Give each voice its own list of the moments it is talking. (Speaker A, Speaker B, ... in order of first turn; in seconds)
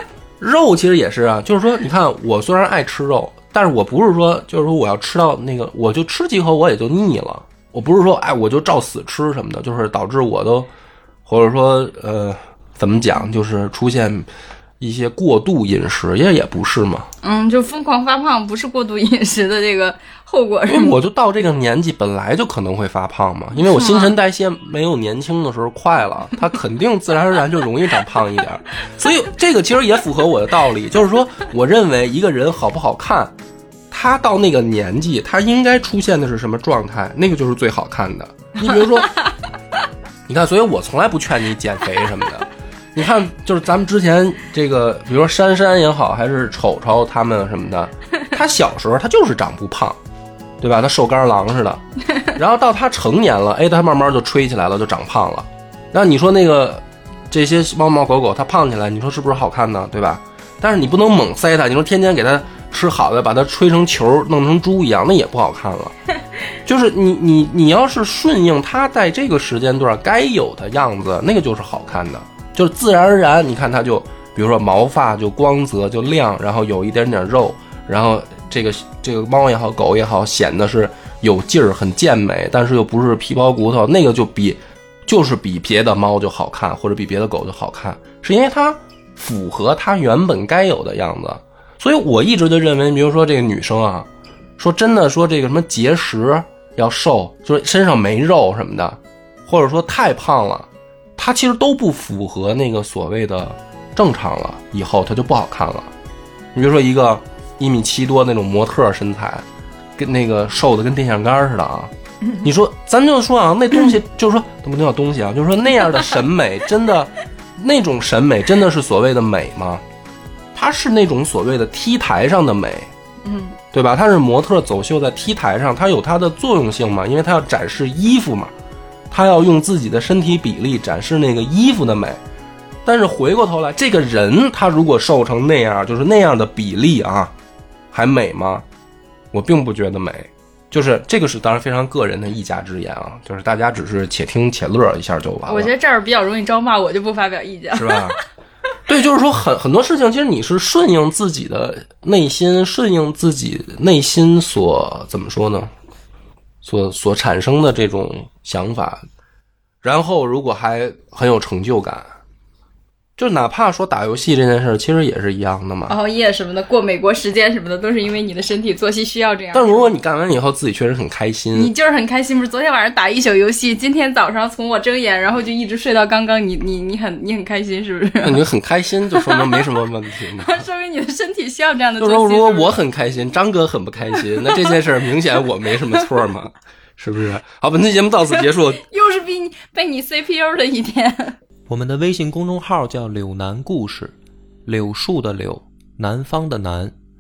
Speaker A: 0.4-10.7, 11.2-14.3, 14.8-17.1, 20.7-33.3, 33.9-39.2, 40.3-50.0, 50.6-66.0, 66.7-105.9, 106.5-109.5, 110.0-119.8, 120.5-122.9, 123.7-128.5, 129.1-132.2, 132.8-137.3, 137.9-138.7, 139.3-145.7, 147.7-148.2, 148.9-155.7, 156.6-159.0, 159.8-162.1, 163.2-166.0, 169.5-171.7, 178.2-180.6, 182.0-188.8
Speaker B: 17.2-21.0, 23.6-24.1, 123.2-123.6, 145.5-148.2, 165.9-169.9, 171.5-178.4, 179.1-179.6, 180.4-182.7, 188.3-191.4
Speaker C: 191.7-196.9